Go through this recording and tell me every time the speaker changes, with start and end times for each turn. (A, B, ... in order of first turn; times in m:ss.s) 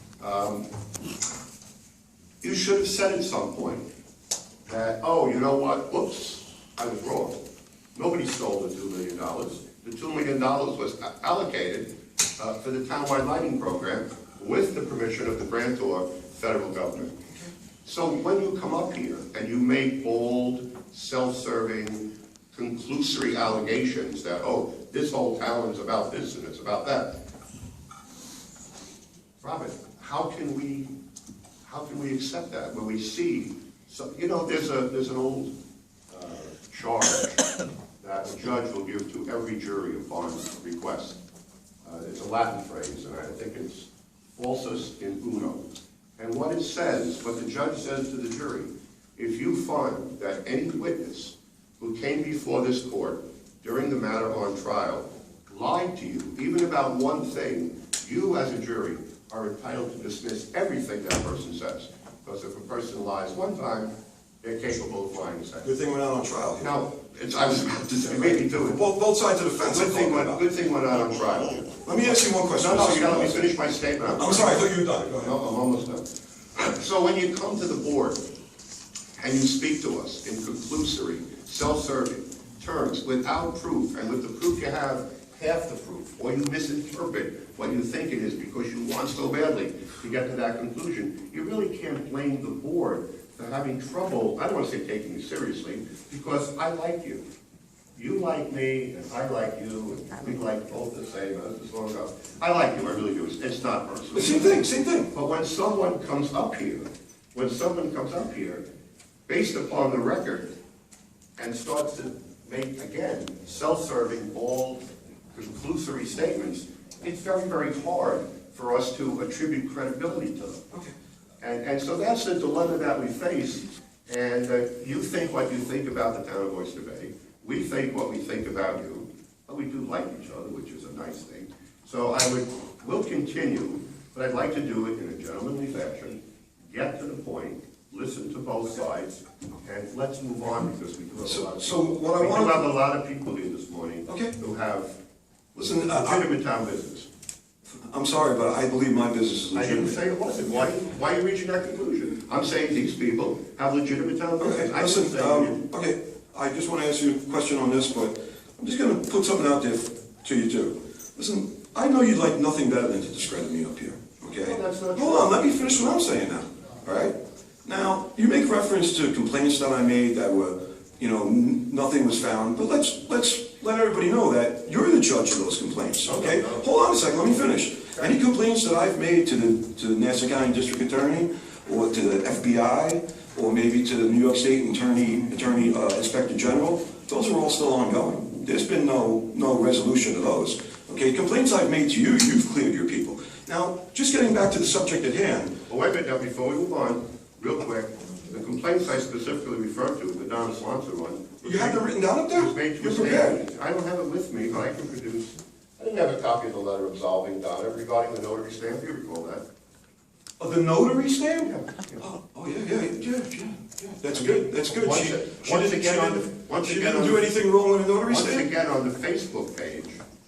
0:00.2-0:00.7 A
0:02.4-0:03.8 A
0:04.7-0:07.4 A
0:08.0-0:17.2 A
0:17.8-0:27.2 A
0:29.4-0:30.9 A
0:31.6-0:35.5 A
0:36.1-0:37.4 A
0:38.0-0:41.2 A
0:41.8-0:45.6 A
0:46.2-1:05.7 A
1:05.6-1:06.7 B
1:06.6-1:08.8 A
1:08.2-1:10.4 B
1:09.6-1:16.0 A
1:11.8-1:13.6 B
1:14.2-1:15.4 B
1:16.6-1:18.2 A
1:19.2-1:37.2 A
1:38.0-1:48.6 A
1:44.1-1:45.1 B
1:49.3-1:50.5 A
1:51.4-2:00.7 A
2:01.4-2:24.9 A
2:21.3-2:22.6 B
2:24.1-2:24.3 B
2:25.6-2:26.2 B
2:25.7-2:27.1 A
2:27.9-2:30.0 B
2:29.5-2:35.6 A
2:34.4-2:47.1 B
2:44.3-2:45.8 A
2:47.6-3:15.5 B
2:56.0-2:56.7 A
3:15.7-3:29.4 A
3:21.4-3:23.4 B
3:30.4-3:38.5 B
3:31.4-3:32.1 A
3:34.1-3:37.3 A
3:38.0-3:40.0 A